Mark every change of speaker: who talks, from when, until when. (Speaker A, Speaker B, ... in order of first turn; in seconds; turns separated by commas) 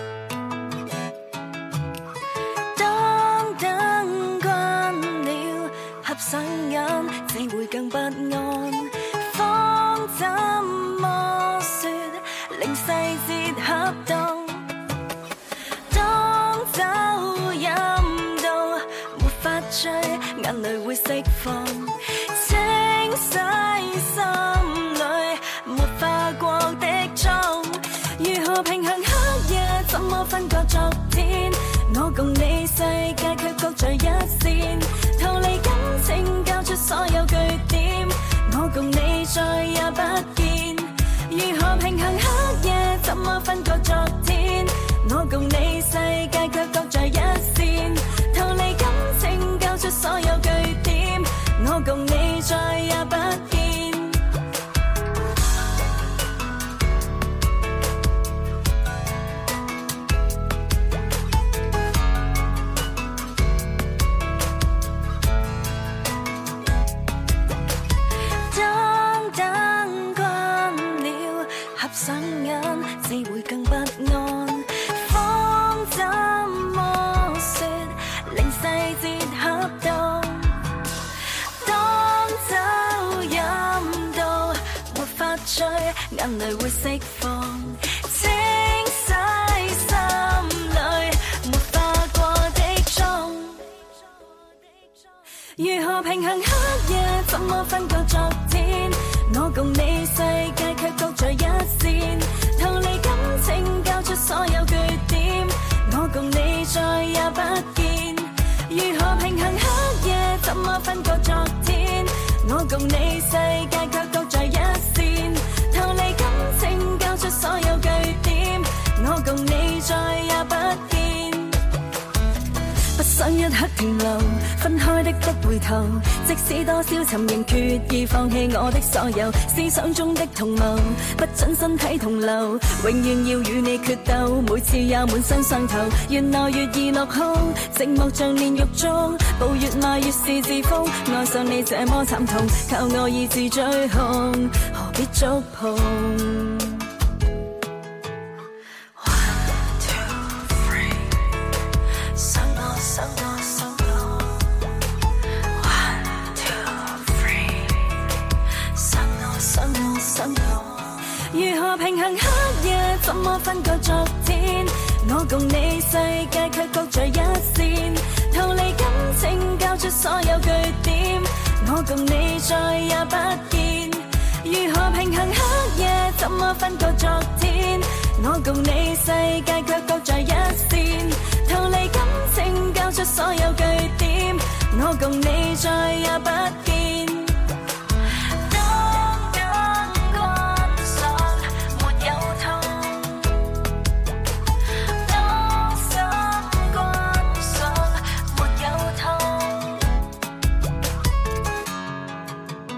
Speaker A: 2.7-14.7, Speaker A: 15.9-54.2, Speaker A: 68.5-80.8, Speaker A: 81.6-93.7, Speaker A: 95.5-121.6, Speaker A: 122.9-146.9, Speaker A: 148.9-151.2, Speaker A: 152.1-154.7, Speaker A: 155.4-158.1, Speaker A: 158.7-187.5, Speaker A: 188.3-193.6, Speaker A: 194.6-200.0